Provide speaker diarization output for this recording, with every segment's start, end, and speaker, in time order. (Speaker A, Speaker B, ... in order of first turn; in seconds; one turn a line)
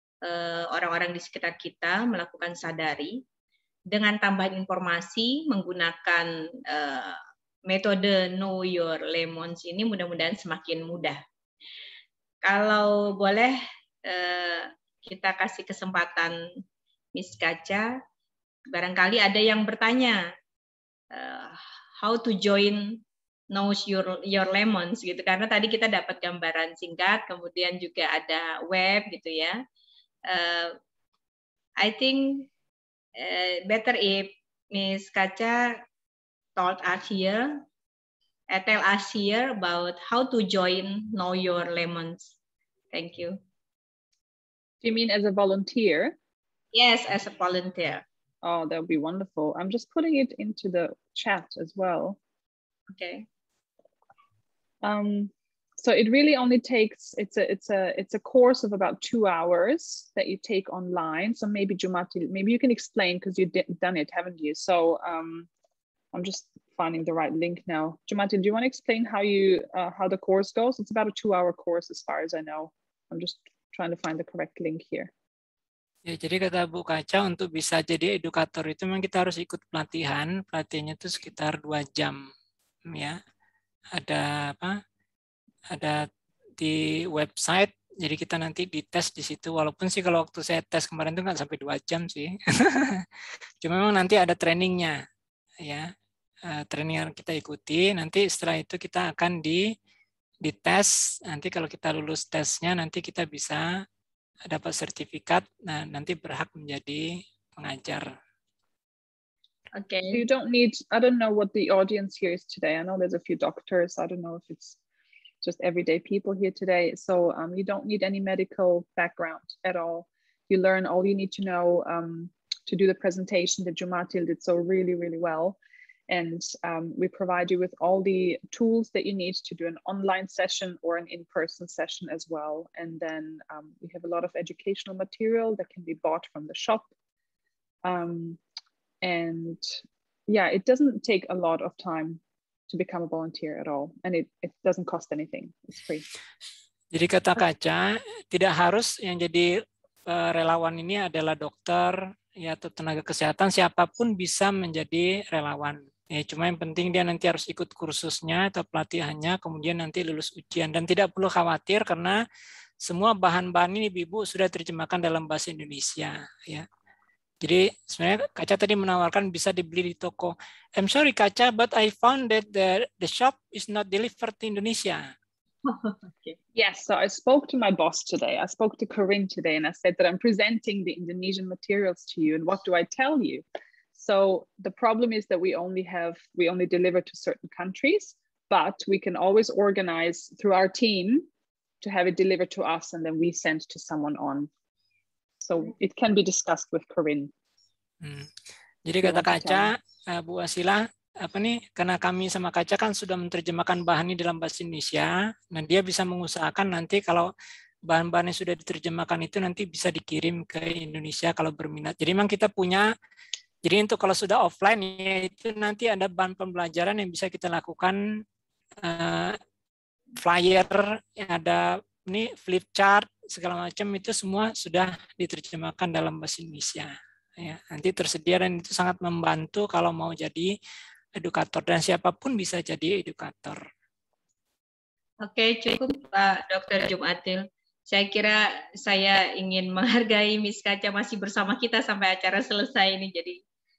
Speaker A: 0.2-3.2
Speaker A: 3.9-11.2
Speaker A: 12.4-13.6
Speaker A: 14.1-16.4
Speaker A: 17.1-17.9
Speaker A: 18.7-20.2
Speaker A: 21.1-23.0
Speaker A: 23.5-29.6
Speaker A: 30.3-30.7
Speaker A: 31.8-32.5
Speaker A: 33.2-35.7
Speaker A: 36.6-37.5
Speaker A: 38.5-42.3
Speaker A: 42.9-43.4
Speaker B: 44.8-46.1
Speaker A: 46.7-48.0
Speaker B: 48.4-52.2
Speaker A: 52.9-53.2
Speaker B: 54.8-65.5
Speaker B: 66.1-75.1
Speaker C: 76.1-82.2
Speaker C: 82.9-83.2
Speaker C: 84.0-84.7
Speaker C: 85.7-86.0
Speaker C: 86.6-93.0
Speaker C: 93.6-95.0
Speaker C: 96.5-99.6
Speaker C: 100.4-103.6
Speaker C: 104.5-108.0
Speaker A: 109.7-110.2
Speaker B: 110.1-114.8
Speaker B: 115.4-125.6
Speaker B: 126.1-136.9
Speaker B: 137.8-138.4
Speaker B: 139.0-146.1
Speaker C: 146.9-149.5
Speaker C: 150.1-162.2
Speaker C: 162.8-166.7
Speaker C: 167.4-175.1
Speaker A: 175.7-176.3
Speaker B: 176.5-183.4
Speaker B: 183.9-191.3
Speaker B: 191.8-194.5
Speaker B: 195.4-197.3
Speaker C: 198.0-198.3
Speaker C: 198.8-207.3
Speaker B: 199.0-199.7
Speaker C: 207.9-212.9
Speaker C: 213.6-218.0
Speaker C: 218.8-219.4
Speaker C: 220.2-230.5
Speaker C: 231.2-233.6
Speaker A: 235.2-243.4